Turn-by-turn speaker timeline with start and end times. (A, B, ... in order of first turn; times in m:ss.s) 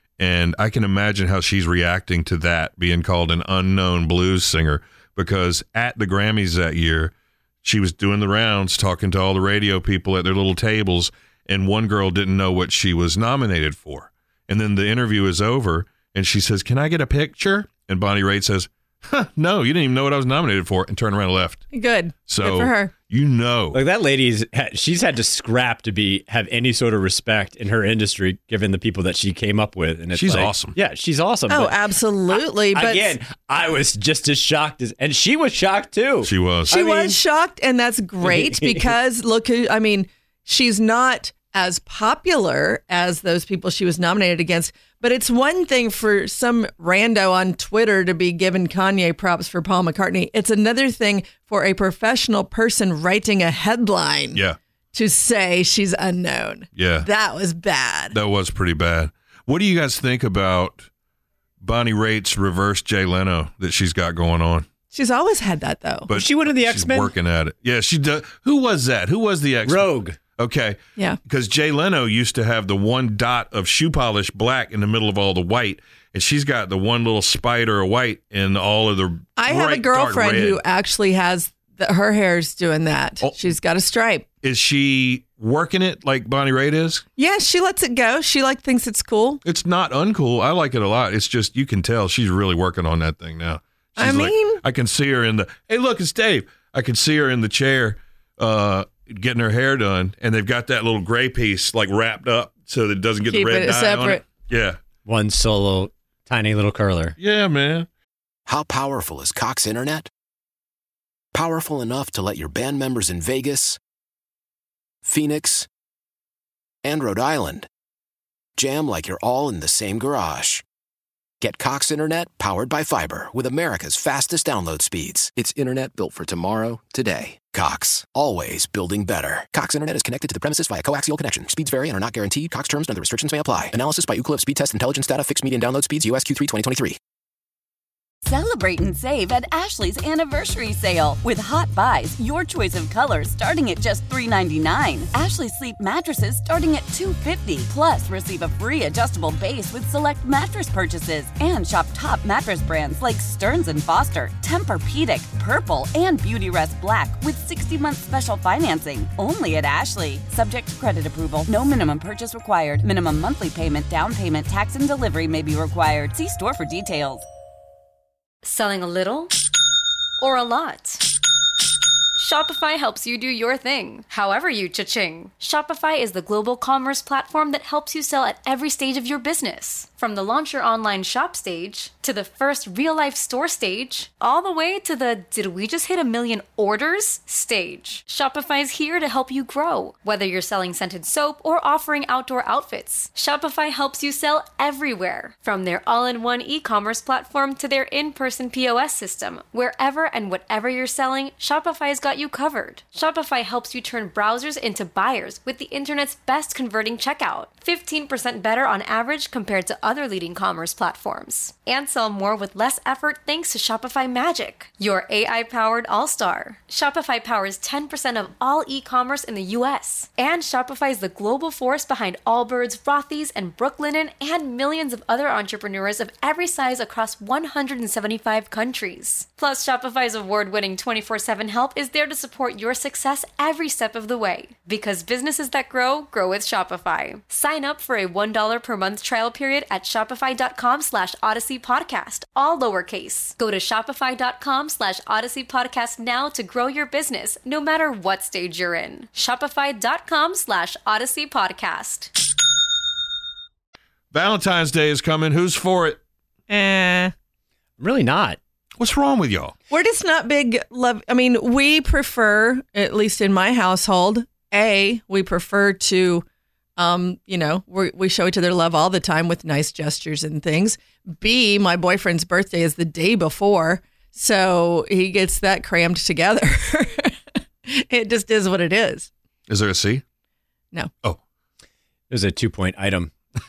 0:00.2-0:21.6 A
0:21.7-0:22.9 B
0:22.3-0:23.8 A
0:23.7-0:31.8 C
0:30.1-0:30.8 A
0:31.5-0:33.1 B
0:32.3-0:37.2 C
0:36.2-0:36.8 A
0:36.7-0:54.4 B
0:38.2-0:38.9 C
0:54.9-0:58.2 B
0:56.8-0:57.1 A
0:58.1-1:00.9 A
1:01.6-1:04.7 A
1:04.9-1:06.1 B
1:06.1-1:20.6 A
1:06.1-1:07.1 C
1:09.6-1:10.2 C
1:19.4-1:24.3 B
1:24.4-1:27.0 A
1:27.2-1:29.4 B
1:29.4-1:44.8 A
1:34.0-1:34.6 B
1:43.3-1:44.2 B
1:45.0-1:47.2 C
1:47.2-1:47.9 A
1:48.5-1:50.1 D
1:51.3-1:53.8 D
1:55.0-1:55.7 D
1:56.8-1:57.7 D
1:58.6-2:00.6 D
2:01.4-2:17.0 D
2:18.2-2:47.3 E
2:48.4-2:49.3 F
2:50.2-2:51.0 F
2:52.2-4:12.1 F
4:14.1-4:16.0 A
4:16.5-4:17.1 B
4:17.8-4:18.4 C
4:18.8-4:19.5 A
4:19.7-4:26.2 B
4:26.8-4:37.1 B
4:37.7-4:39.1 B
4:39.5-4:40.0 A
4:42.1-4:43.1 C